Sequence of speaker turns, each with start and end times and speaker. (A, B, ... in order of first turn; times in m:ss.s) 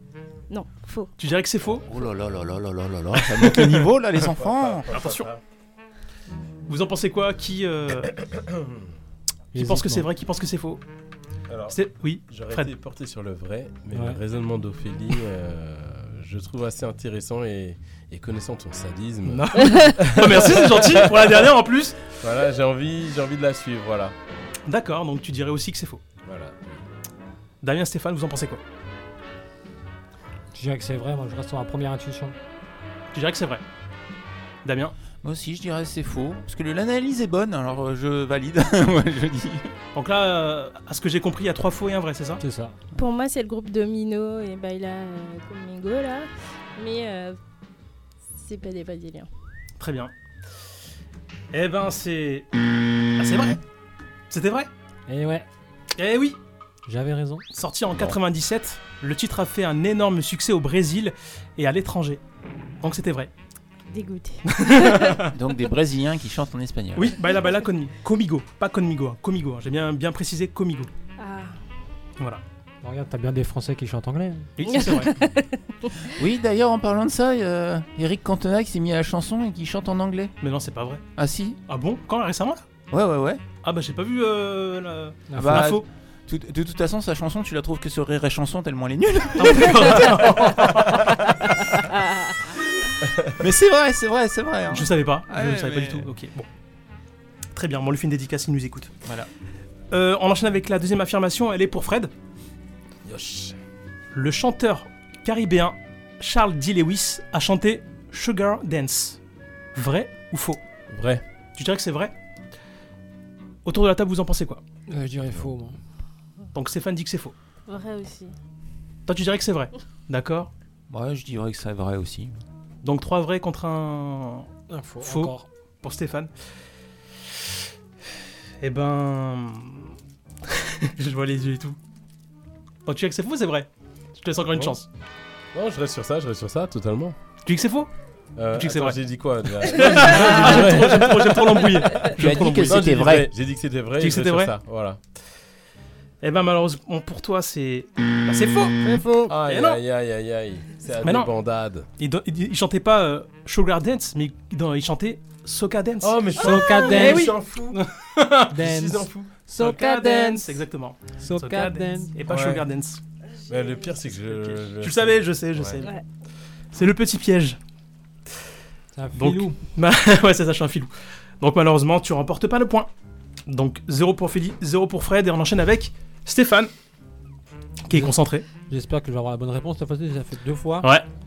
0:00.5-0:01.1 A
0:01.2-0:01.8 B
0:01.8-0:05.0 C
0:04.3-0:05.4 D
0:04.9-0:05.3 B
0:06.7-0:08.1 B
0:08.2-0:08.9 D
0:09.5-0:10.1 E
0:09.6-0:10.8 B
0:11.5-0:11.8 D
0:11.7-0:12.7 B
0:12.3-0:21.4 D
0:13.9-0:14.2 E
0:19.3-0:22.0 B
0:22.2-0:24.2 D
0:24.7-0:26.0 B
0:26.2-0:26.8 D
0:27.6-0:28.6 B
0:30.5-0:32.4 E
0:33.1-0:33.6 B
0:34.6-0:34.9 B
0:35.2-0:39.7 C
0:40.0-0:42.4 B
0:42.4-0:42.8 E
0:43.0-0:47.4 A
0:48.4-0:49.3 A
0:49.8-0:50.1 B
0:51.5-0:52.5 B
0:53.2-0:53.6 B
0:54.3-0:54.7 B
0:55.1-0:55.5 E
0:56.0-0:56.4 B
0:56.9-0:57.4 E
0:57.5-1:02.2 B
1:02.8-1:03.3 B
1:03.9-1:05.2 A
1:04.5-1:05.3 B
1:05.3-1:07.2 C
1:07.0-1:10.9 B
1:11.2-1:11.6 A
1:12.8-1:14.5 E
1:14.6-1:15.1 B
1:14.7-1:15.9 A
1:16.2-1:20.4 C
1:20.4-1:21.0 B
1:21.2-1:21.6 C
1:21.7-1:22.6 B
1:22.9-1:23.4 C
1:23.6-1:25.8 B
1:25.3-1:25.7 E
1:25.4-1:31.1 C
1:29.4-1:31.0 B
1:33.4-1:36.1 C
1:34.7-1:36.5 B
1:37.5-1:38.9 B
1:39.9-1:42.1 B
1:43.0-1:43.6 D
1:44.1-1:49.2 B
1:49.8-1:50.6 B
1:50.9-1:51.2 D
1:51.6-1:52.1 B
1:53.6-1:54.6 B
1:54.9-1:55.8 E
1:56.5-1:57.4 B
1:57.7-1:58.4 A
1:59.1-2:00.5 B
2:00.9-2:02.4 C
2:02.8-2:04.5 B
2:04.7-2:05.5 E
2:05.0-2:06.3 B
2:08.6-2:11.8 B
2:12.9-2:14.9 B
2:15.5-2:17.2 D
2:17.4-2:17.9 B
2:18.4-2:25.0 D
2:18.6-2:19.0 B
2:19.6-2:23.0 B
2:22.2-2:23.3 C
2:24.0-2:24.5 B
2:26.2-2:28.8 B
2:28.8-2:29.3 E
2:29.3-2:31.9 D
2:29.5-2:29.8 B
2:31.0-2:31.3 B
2:32.0-2:38.5 B
2:36.0-2:37.8 D
2:36.4-2:37.4 E
2:38.5-2:40.6 E
2:38.6-2:39.3 D
2:39.6-2:43.0 B
2:41.2-2:42.2 E
2:42.3-2:42.6 D
2:43.5-2:45.8 D
2:44.3-2:45.9 B
2:46.7-2:47.6 B
2:48.9-2:49.6 E
2:49.2-2:52.9 B
2:53.5-2:56.7 B
2:57.9-2:58.5 B
2:57.9-3:01.0 E